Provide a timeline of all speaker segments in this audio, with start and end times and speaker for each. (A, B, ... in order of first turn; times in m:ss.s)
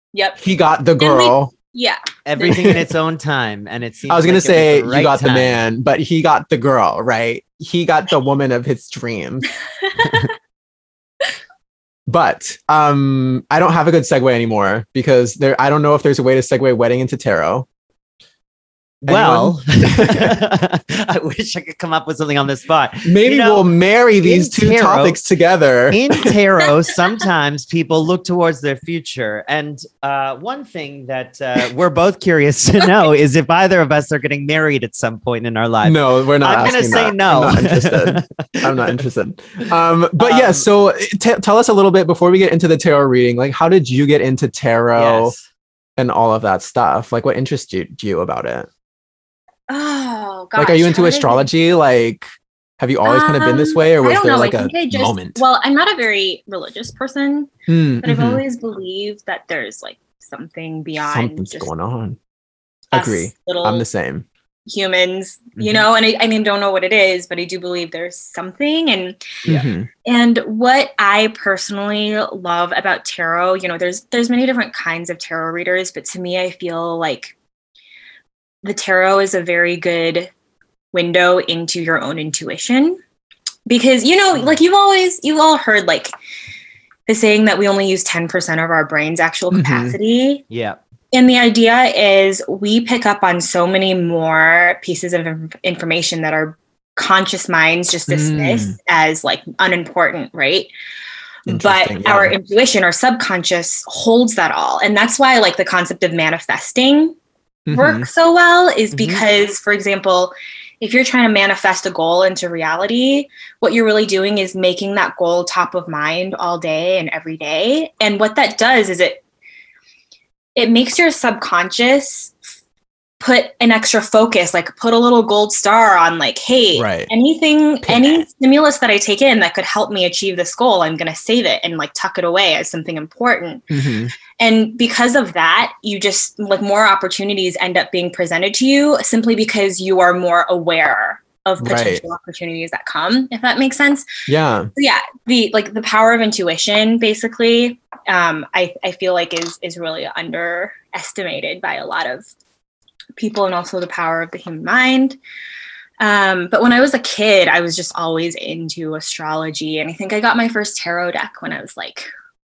0:00.1-0:00.4 A
0:00.4-0:01.5 B
0:01.0-0:02.8 A
0:02.2-0:05.6 C
0:02.4-0:02.8 B
0:04.1-0:09.5 B
0:10.0-0:10.3 A
0:12.1-0:17.7 B
0:19.0-0:20.3 B
0:19.0-0:23.7 C
0:23.0-0:26.0 B
0:24.2-0:25.2 C
0:25.9-0:39.0 C
0:35.8-0:45.3 B
0:40.2-0:40.7 C
0:44.9-0:45.4 C
0:46.0-0:48.7 B
0:49.7-0:51.4 A
0:50.6-0:52.3 B
0:52.8-0:55.4 B
0:53.0-0:57.5 A
0:57.7-0:58.4 B
0:58.0-1:01.7 A
1:01.0-1:02.2 B
1:02.9-1:03.8 A
1:02.9-1:04.2 B
1:04.6-1:09.4 A
1:09.5-1:09.9 B
1:10.0-1:17.3 A
1:18.6-1:20.3 A
1:20.9-1:23.0 A
1:23.6-1:26.1 A
1:27.1-1:30.4 A
1:29.5-1:30.0 B
1:30.5-1:30.8 C
1:31.1-1:40.7 A
1:38.1-1:38.8 B
1:41.4-1:47.2 A
1:41.5-1:42.3 B
1:47.7-1:48.1 B
1:47.7-1:59.2 A
1:48.9-1:49.2 C
2:00.5-2:02.4 A
2:03.2-2:13.6 A
2:06.7-2:07.1 B
2:07.8-2:08.2 B
2:13.7-2:14.1 B
2:14.4-2:24.1 A
2:21.6-2:22.0 B
2:24.3-2:24.7 B
2:24.8-2:32.3 A
2:33.2-2:35.2 A
2:36.0-2:42.1 A